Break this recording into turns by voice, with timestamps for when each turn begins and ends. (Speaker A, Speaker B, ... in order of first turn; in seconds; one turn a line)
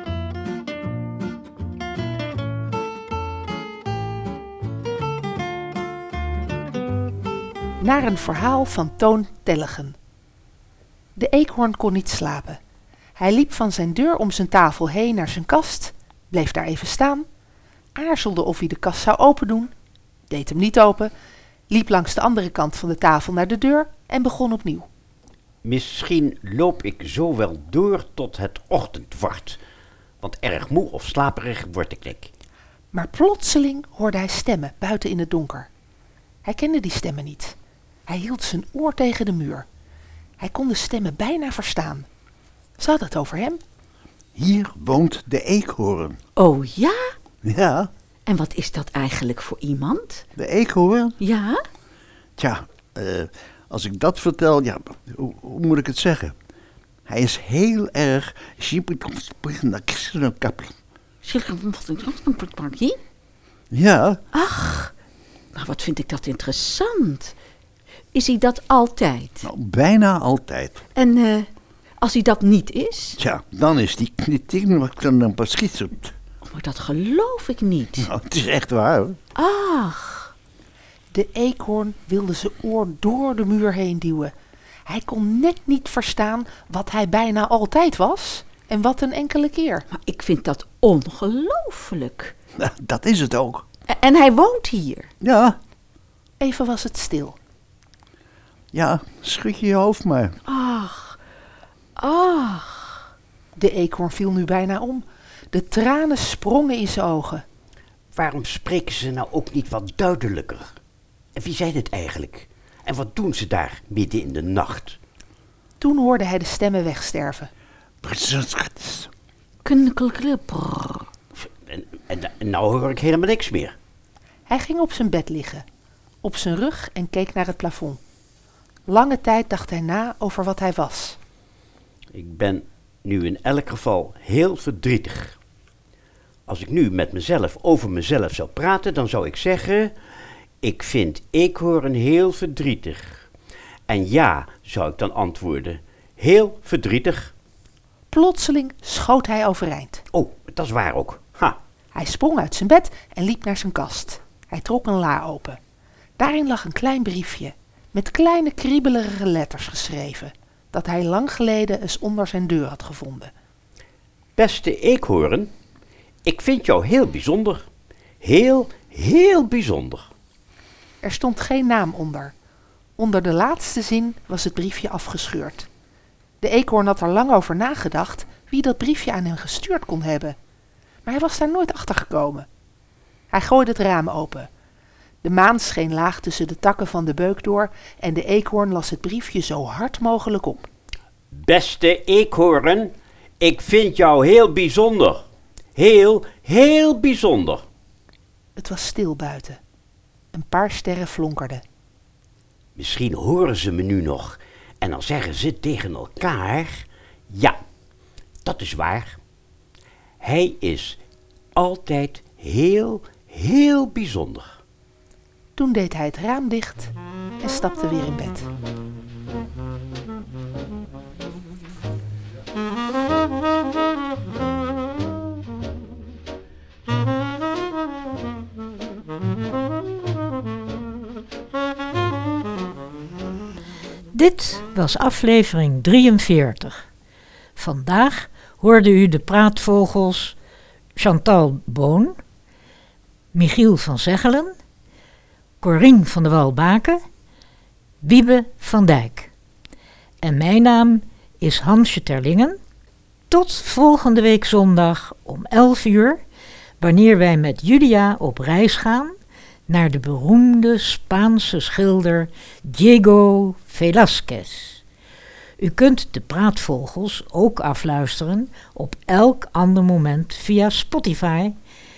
Speaker A: 7.8-9.9
Speaker A: 11.2-12.6
Speaker A: 13.2-17.3
Speaker A: 17.9-19.7
Speaker A: 20.3-21.1
Speaker A: 21.7-24.9
Speaker B: 25.6-29.6
Speaker B: 30.2-32.3
Speaker A: 32.9-35.7
Speaker A: 36.5-37.6
Speaker A: 38.1-39.7
Speaker A: 40.4-42.1
Speaker A: 42.8-43.6
Speaker C: 44.4-46.2
Speaker D: 46.4-47.1
Speaker C: 47.5-47.9
Speaker D: 48.3-50.2
Speaker C: 50.4-51.1
Speaker D: 51.2-51.6
Speaker C: 52.4-56.3
Speaker C: 57.1-60.7
Speaker D: 61.2-63.0
Speaker C: 63.7-64.2
Speaker D: 64.3-64.9
Speaker D: 65.5-67.3
Speaker D: 68.1-69.5
Speaker C: 69.4-70.8
Speaker D: 71.0-71.5
Speaker D: 72.0-73.2
Speaker C: 73.2-76.1
Speaker D: 76.5-78.1
Speaker C: 78.0-79.2
Speaker D: 79.4-80.3
Speaker A: 81.1-84.3
Speaker A: 84.9-89.9
Speaker D: 89.9-92.3
Speaker C: 92.6-93.6
Speaker D: 93.9-95.1
Speaker C: 95.2-95.6
Speaker A: 96.4-97.4
Speaker C: 98.7-100.3
Speaker D: 100.5-101.2
Speaker D: 102.0-103.0
Speaker A: 103.6-107.5
Speaker B: 108.1-110.8
Speaker B: 111.4-115.0
Speaker A: 115.8-117.5
Speaker C: 118.0-119.1
Speaker D: 119.7-121.1
Speaker B: 121.7-123.8
Speaker A: 124.5-125.7
Speaker A: 126.2-128.0
Speaker A: 128.9-131.2
Speaker B: 132.1-135.4
Speaker B: 136.5-139.9
Speaker B: 140.6-143.3
Speaker B: 143.9-147.3
Speaker A: 148.1-150.0
Speaker B: 150.1-151.6
Speaker A: 151.9-155.6
Speaker A: 156.2-163.3
Speaker B: 164.4-165.5
Speaker B: 166.3-167.7
Speaker B: 168.2-170.1
Speaker A: 171.0-172.3
Speaker A: 173.0-175.7
Speaker A: 176.4-180.4
Speaker A: 181.1-182.5
Speaker A: 183.3-184.5
Speaker A: 185.2-190.7
Speaker B: 191.4-197.6
Speaker A: 198.6-199.6
Speaker A: 200.3-201.6
Speaker B: 202.8-207.6
Speaker B: 208.4-209.2
Speaker B: 210.2-211.0
Speaker B: 211.6-214.6
Speaker A: 215.6-218.5
Speaker E: 234.1-236.8
Speaker E: 237.6-240.4
Speaker E: 241.0-242.2
Speaker E: 243.3-244.5
Speaker E: 245.6-247.0
Speaker E: 248.0-249.3
Speaker E: 250.2-252.6
Speaker E: 253.3-256.2
Speaker E: 256.8-259.1
Speaker E: 259.7-264.8
Speaker E: 265.6-271.6